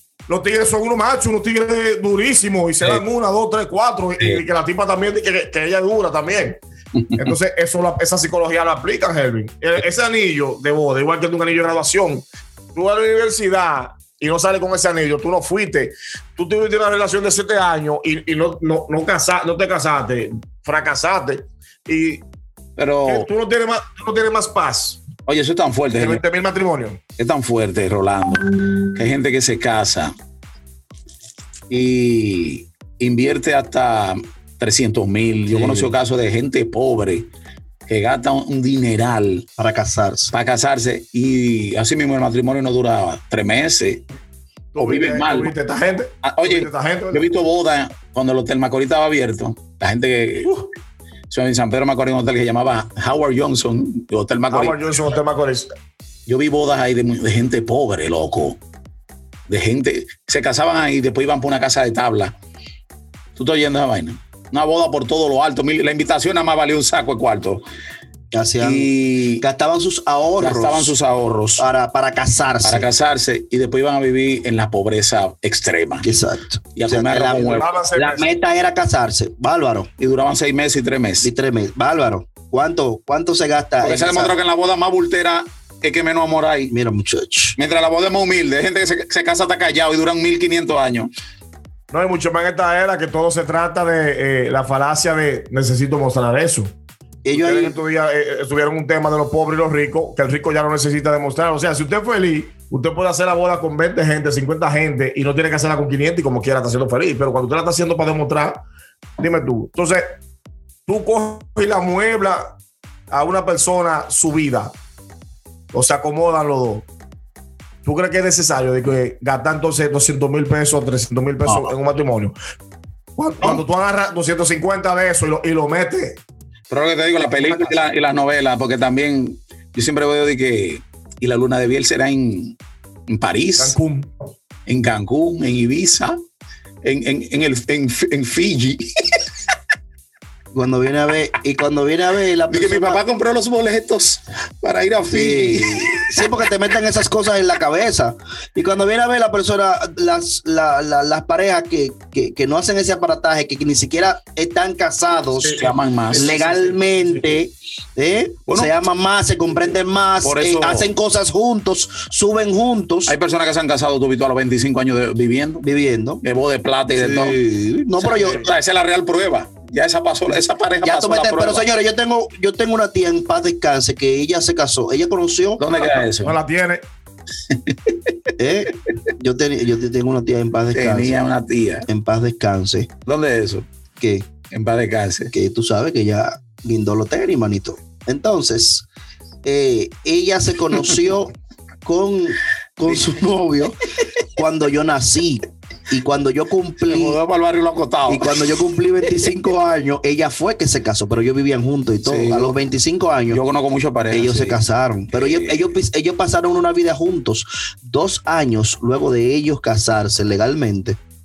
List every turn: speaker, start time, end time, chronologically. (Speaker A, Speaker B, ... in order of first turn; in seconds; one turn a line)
Speaker A: 0.3-6.6
Speaker A: 7.2-22.2
Speaker B: 22.8-23.3
Speaker A: 23.1-25.0
Speaker B: 25.2-26.2
Speaker A: 25.9-27.0
Speaker B: 27.2-30.1
Speaker B: 31.7-37.3
Speaker C: 35.5-35.9
Speaker B: 37.9-39.5
Speaker C: 39.6-40.3
Speaker B: 40.3-44.0
Speaker A: 44.7-47.3
Speaker B: 44.8-45.5
Speaker B: 46.2-50.6
Speaker B: 51.3-54.8
Speaker A: 54.5-55.7
Speaker B: 56.3-58.6
Speaker B: 59.5-62.3
Speaker B: 63.4-67.6
Speaker C: 68.3-70.9
Speaker B: 68.6-69.4
Speaker B: 70.4-71.6
Speaker C: 71.6-72.9
Speaker B: 72.6-76.1
Speaker C: 76.0-79.9
Speaker B: 76.8-77.7
Speaker A: 77.4-78.3
Speaker B: 80.0-81.3
Speaker C: 81.2-84.3
Speaker B: 83.8-86.7
Speaker C: 86.7-87.6
Speaker B: 87.6-91.1
Speaker A: 91.9-96.7
Speaker C: 97.2-97.8
Speaker A: 97.3-108.6
Speaker A: 109.2-110.1
Speaker A: 110.9-112.6
Speaker A: 113.1-114.7
Speaker A: 115.7-116.9
Speaker A: 117.8-122.3
Speaker A: 123.2-126.2
Speaker B: 126.7-132.6
Speaker A: 127.3-127.8
Speaker B: 133.1-133.8
Speaker A: 133.6-134.1
Speaker B: 134.7-136.2
Speaker B: 136.8-138.8
Speaker C: 140.5-143.0
Speaker B: 142.5-146.4
Speaker C: 145.1-155.6
Speaker A: 155.4-157.4
Speaker B: 155.5-156.4
Speaker C: 156.1-163.2
Speaker B: 160.2-160.9
Speaker B: 163.1-165.6
Speaker C: 165.6-166.2
Speaker B: 166.2-167.4
Speaker C: 166.9-168.5
Speaker B: 168.0-171.7
Speaker C: 170.8-175.6
Speaker B: 175.6-176.4
Speaker A: 176.2-176.8
Speaker B: 177.5-177.9
Speaker C: 178.4-181.2
Speaker B: 180.7-181.8
Speaker C: 181.8-182.9
Speaker B: 183.1-183.7
Speaker C: 184.0-184.3
Speaker B: 184.5-185.3
Speaker C: 185.3-188.8
Speaker C: 189.4-191.3
Speaker C: 191.8-193.8
Speaker C: 194.3-197.2
Speaker B: 196.9-198.6
Speaker C: 198.1-203.4
Speaker B: 202.0-202.6
Speaker B: 203.3-204.6
Speaker C: 204.1-211.0
Speaker B: 205.1-205.7